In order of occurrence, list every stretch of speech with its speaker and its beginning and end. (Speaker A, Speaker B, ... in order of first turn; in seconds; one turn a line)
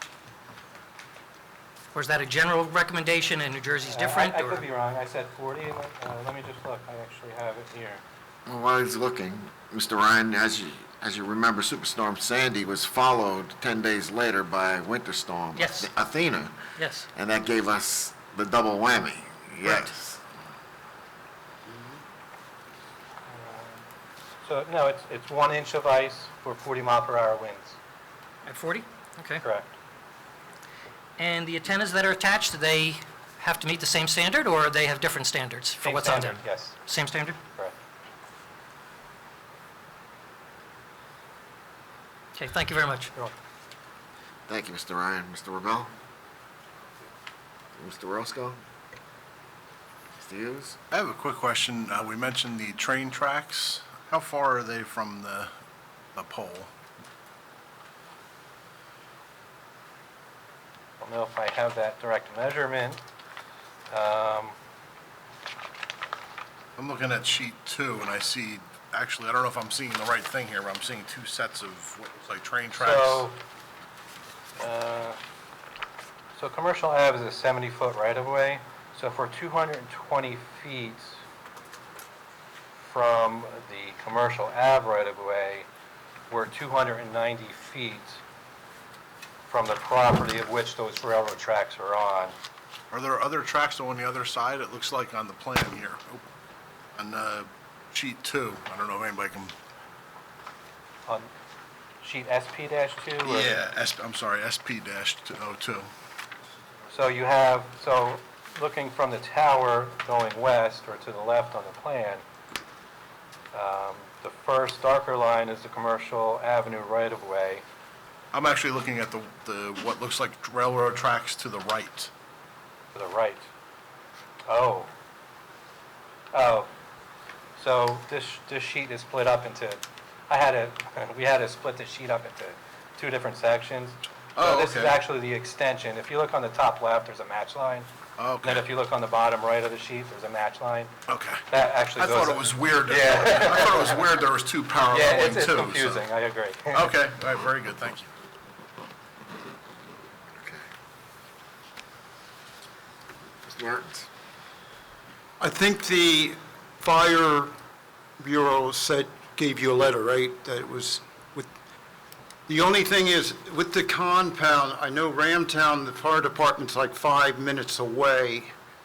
Speaker A: 1.9-4.7
Speaker B: 3.9-8.0
Speaker C: 8.5-20.2
Speaker A: 15.6-15.9
Speaker A: 16.8-17.1
Speaker B: 23.3-23.8
Speaker B: 24.4-27.8
Speaker A: 28.5-29.4
Speaker B: 29.4-29.8
Speaker A: 31.2-37.4
Speaker B: 35.8-36.8
Speaker A: 42.4-43.1
Speaker C: 44.5-45.9
Speaker C: 47.8-48.6
Speaker C: 50.2-50.8
Speaker D: 50.9-55.5
Speaker D: 56.1-56.7
Speaker B: 61.0-63.0
Speaker B: 63.9-64.5
Speaker D: 66.8-73.3
Speaker B: 72.8-73.4
Speaker B: 74.6-75.2
Speaker B: 76.4-81.2
Speaker B: 82.8-85.7
Speaker B: 86.3-88.2
Speaker B: 89.5-92.3
Speaker D: 92.9-96.2
Speaker D: 97.0-99.5
Speaker B: 102.0-103.6
Speaker D: 103.2-105.9
Speaker B: 106.9-112.2
Speaker B: 113.5-117.6
Speaker D: 118.3-122.1
Speaker B: 122.9-123.5
Speaker B: 124.5-124.9
Speaker B: 126.3-126.7
Speaker B: 127.6-137.9
Speaker D: 134.4-135.0
Speaker D: 138.2-138.7
Speaker B: 138.4-140.9
Speaker D: 141.1-141.4
Speaker B: 141.5-144.1
Speaker D: 142.0-146.1
Speaker B: 144.9-146.9
Speaker D: 146.7-148.1
Speaker C: 150.3-150.6
Speaker C: 153.4-154.1
Speaker E: 155.4-157.5
Speaker E: 158.2-161.5
Speaker E: 162.5-168.5